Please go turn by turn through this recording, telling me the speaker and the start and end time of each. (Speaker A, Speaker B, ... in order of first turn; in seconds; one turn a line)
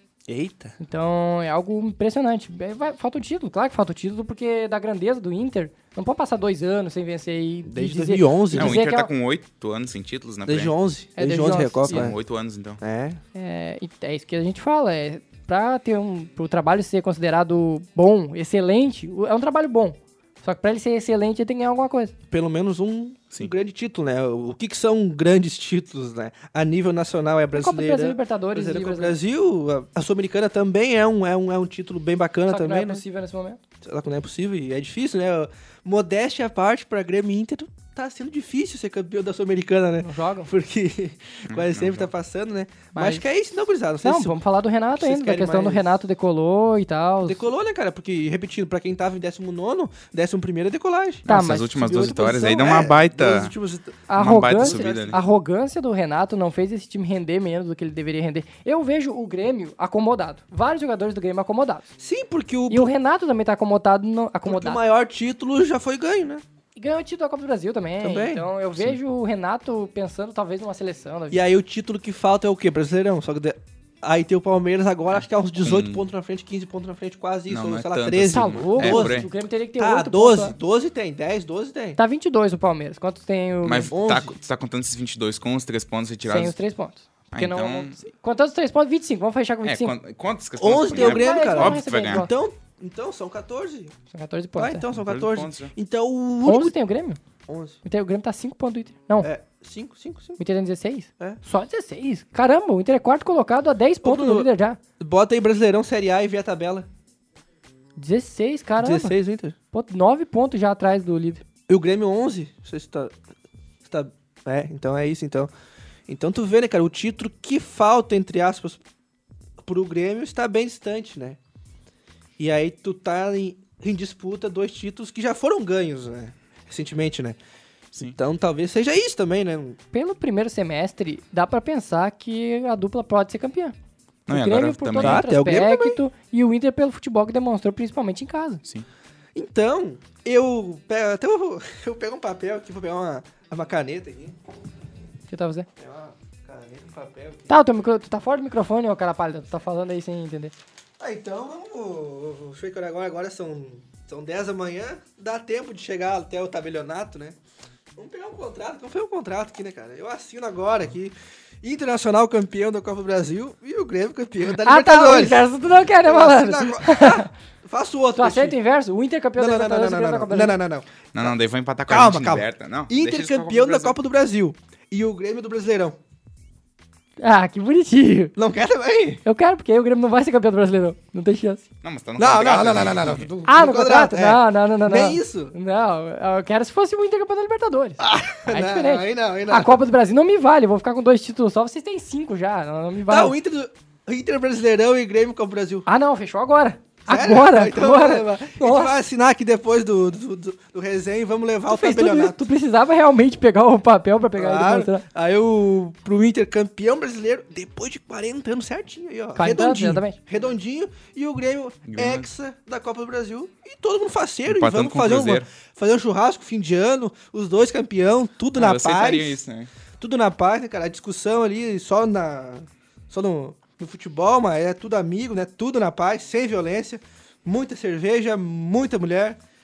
Speaker A: 0.3-0.8
Speaker B: 0.8-9.1
Speaker A: 7.7-8.8
Speaker C: 8.5-10.8
Speaker A: 10.5-12.2
Speaker B: 11.2-12.1
Speaker C: 11.9-12.8
Speaker A: 12.8-13.2
Speaker B: 13.3-22.1
Speaker A: 22.3-33.0
Speaker B: 27.5-29.2
Speaker B: 32.5-33.6
Speaker A: 33.8-44.4
Speaker B: 40.0-40.5
Speaker C: 41.5-42.1
Speaker B: 42.9-43.2
Speaker B: 44.0-47.5
Speaker A: 45.0-46.0
Speaker A: 47.2-51.3
Speaker C: 51.3-53.5
Speaker B: 51.3-52.8
Speaker A: 52.5-54.0
Speaker B: 54.1-61.9
Speaker C: 54.1-55.2
Speaker A: 54.5-55.2
Speaker A: 62.0-62.9
Speaker B: 62.7-64.8
Speaker A: 64.5-66.4
Speaker B: 66.8-71.4
Speaker A: 68.0-68.5
Speaker A: 71.3-82.0
Speaker C: 75.6-76.0
Speaker C: 77.5-79.3
Speaker B: 78.3-80.6
Speaker B: 82.0-83.9
Speaker C: 83.7-86.6
Speaker A: 83.9-84.3
Speaker B: 86.2-89.9
Speaker C: 87.3-88.0
Speaker C: 89.6-92.3
Speaker A: 90.6-93.9
Speaker B: 90.8-92.3
Speaker B: 94.1-94.8
Speaker A: 94.6-96.8
Speaker C: 95.0-95.7
Speaker B: 96.5-97.2
Speaker A: 97.5-97.8
Speaker B: 97.8-99.3
Speaker A: 99.2-100.4
Speaker B: 100.4-104.8
Speaker A: 104.0-104.5
Speaker A: 105.0-106.9
Speaker B: 108.0-109.2
Speaker A: 108.8-109.6
Speaker B: 109.7-111.4
Speaker A: 111.7-113.1
Speaker A: 113.8-115.5
Speaker A: 116.1-118.8
Speaker A: 119.6-121.4
Speaker A: 122.4-127.4
Speaker A: 128.0-129.8
Speaker B: 129.9-133.8
Speaker C: 134.3-135.2
Speaker B: 134.3-138.6
Speaker A: 135.0-136.0
Speaker A: 139.3-144.4
Speaker B: 145.3-145.7
Speaker A: 145.8-147.6
Speaker B: 147.5-150.5
Speaker A: 151.0-157.4
Speaker A: 158.0-168.6
Speaker B: 164.5-167.3
Speaker B: 168.2-170.6
Speaker A: 169.4-171.3
Speaker C: 171.1-174.0
Speaker A: 171.9-176.0
Speaker B: 177.2-178.3
Speaker A: 178.4-179.2
Speaker B: 179.2-181.6
Speaker C: 181.8-183.3
Speaker A: 182.2-185.5
Speaker B: 183.4-193.4
Speaker A: 188.0-189.8
Speaker A: 193.1-195.9
Speaker B: 195.9-199.0
Speaker A: 197.1-202.4
Speaker B: 201.7-205.1
Speaker A: 204.4-219.4
Speaker B: 209.4-210.2
Speaker C: 211.9-212.3
Speaker C: 214.5-215.5
Speaker C: 218.6-219.7
Speaker A: 220.0-229.4